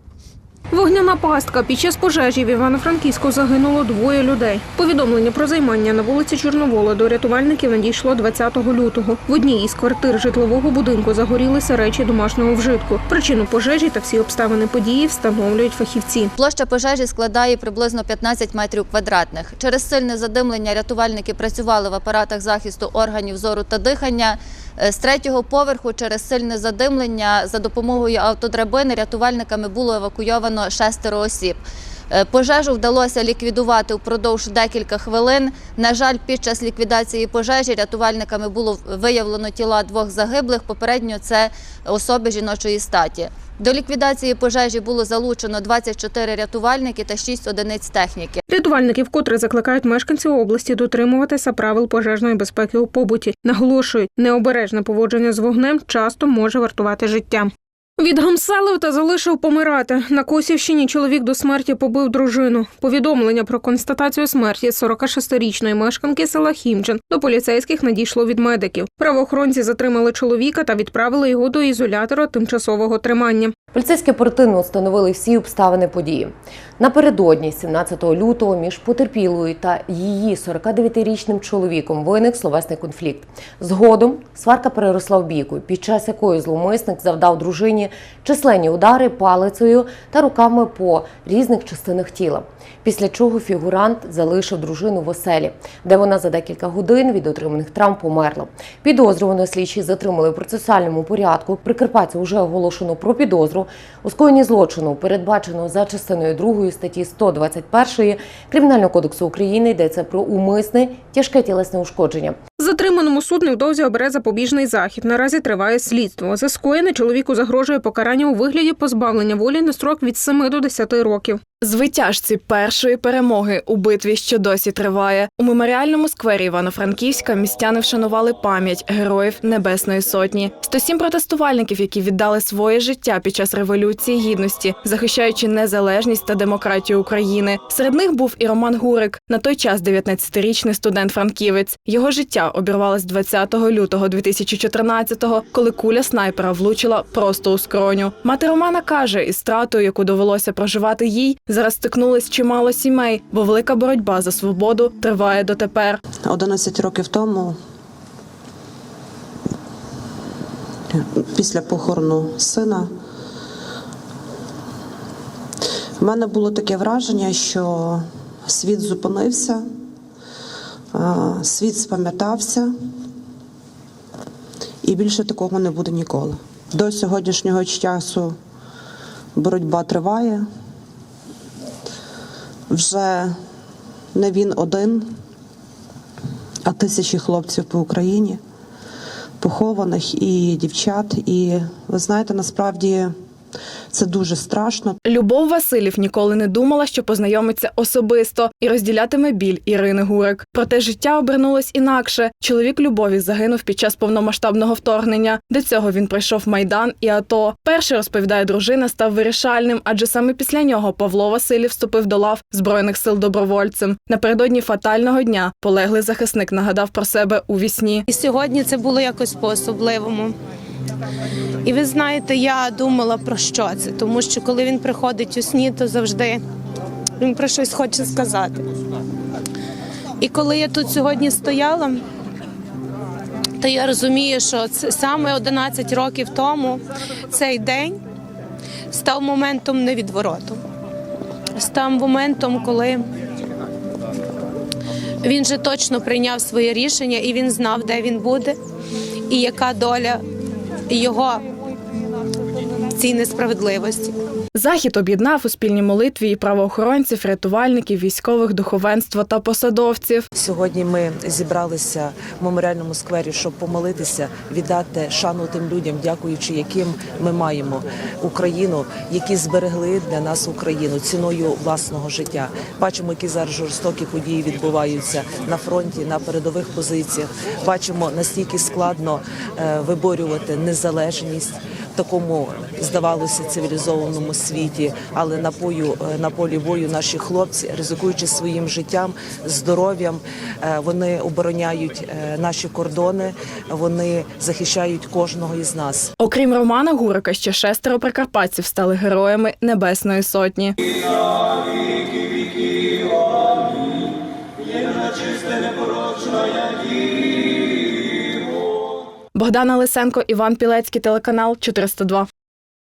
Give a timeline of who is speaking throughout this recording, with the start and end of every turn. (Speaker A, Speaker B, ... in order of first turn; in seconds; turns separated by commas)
Speaker A: 0.7-16.3, Speaker B: 16.4-48.4, Speaker A: 48.5-73.5, Speaker C: 73.7-112.4, Speaker A: 112.6-121.4, Speaker D: 121.6-156.0, Speaker E: 156.2-157.6, Speaker E: 160.9-162.9, Speaker E: 166.0-169.6, Speaker E: 170.9-172.7, Speaker E: 174.8-178.3, Speaker E: 179.3-180.5, Speaker E: 182.7-183.4, Speaker E: 184.1-185.1, Speaker E: 186.7-188.4, Speaker E: 189.4-193.1, Speaker E: 193.9-195.0, Speaker D: 195.0-218.0, Speaker F: 218.1-220.3, Speaker F: 221.6-226.4, Speaker F: 227.2-228.7, Speaker F: 230.2-232.0, Speaker F: 233.6-238.0, Speaker F: 238.9-240.6, Speaker F: 241.5-243.1, Speaker F: 245.2-248.6, Speaker F: 249.3-250.2, Speaker F: 250.9-251.4, Speaker F: 252.9-254.1, Speaker D: 254.6-260.3, Speaker G: 260.3-296.1, Speaker D: 296.2-300.7, Speaker D: 309.3-312.3